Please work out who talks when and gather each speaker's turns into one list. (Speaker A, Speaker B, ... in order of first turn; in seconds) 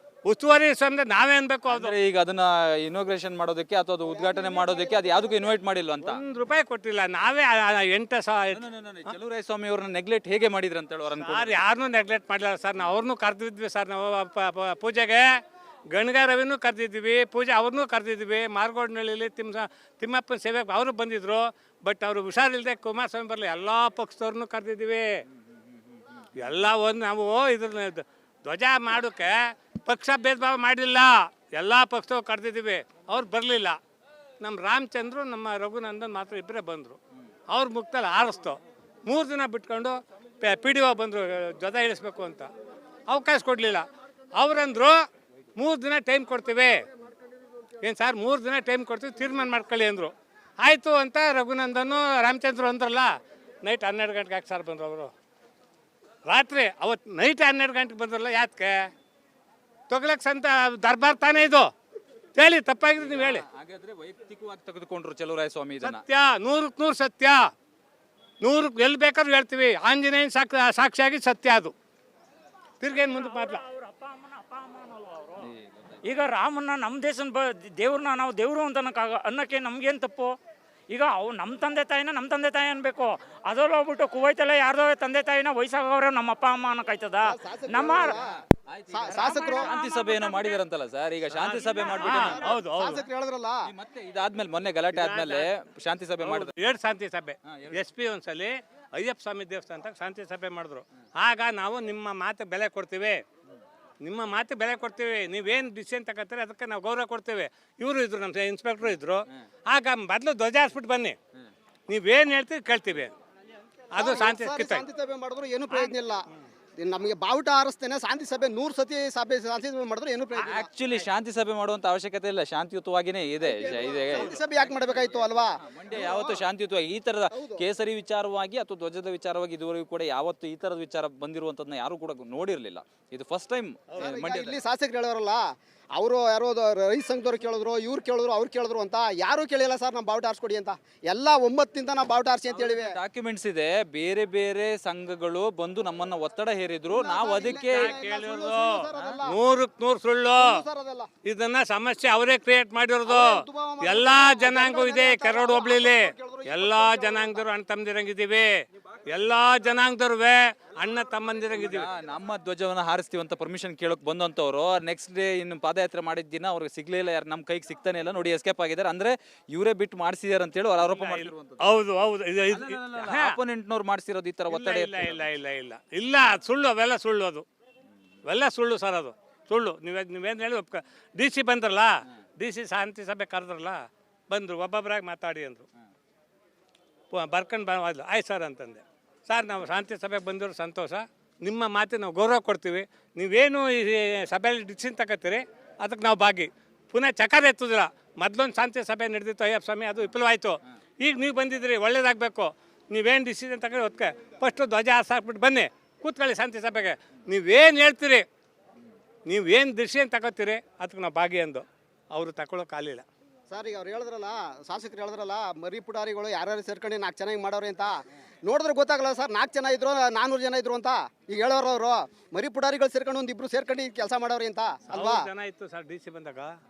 Speaker A: 0.2-1.9, 6.0-8.6, 11.2-15.4, 15.9-25.2, 26.4-33.8, 34.4-37.0, 37.5-42.5, 43.1-45.0, 45.5-46.8, 47.8-55.1, 56.2-58.9, 59.9-61.7, 62.4-63.4, 65.8-67.5, 68.4-71.7, 72.8-73.6, 91.3-93.0, 94.9-95.5, 96.2-103.2, 104.0-111.2, 111.9-113.1, 113.9-114.8, 147.4-150.6, 151.2-161.9, 170.8-173.4, 174.5-177.4, 178.2-185.7, 187.1-208.2, 209.2-213.1, 224.9-226.6
Speaker B: 1.7-6.2, 8.5-11.6, 63.0-66.0, 75.4-76.1, 88.5-92.5, 93.7-96.5, 97.4-97.9, 120.4-134.6, 142.5-147.9, 161.5-171.7, 172.5-175.3
Speaker C: 4.0-5.6, 87.2-88.3, 88.9-89.7, 92.4-93.6, 113.9-116.2, 116.8-120.7, 123.4-126.4, 127.3-127.6, 134.0-142.9, 146.9-149.4, 150.4-151.1, 153.1-157.4, 213.5-225.3
Speaker D: 72.9-75.5, 76.0-80.4, 80.9-88.2, 89.1-90.6, 91.5-92.3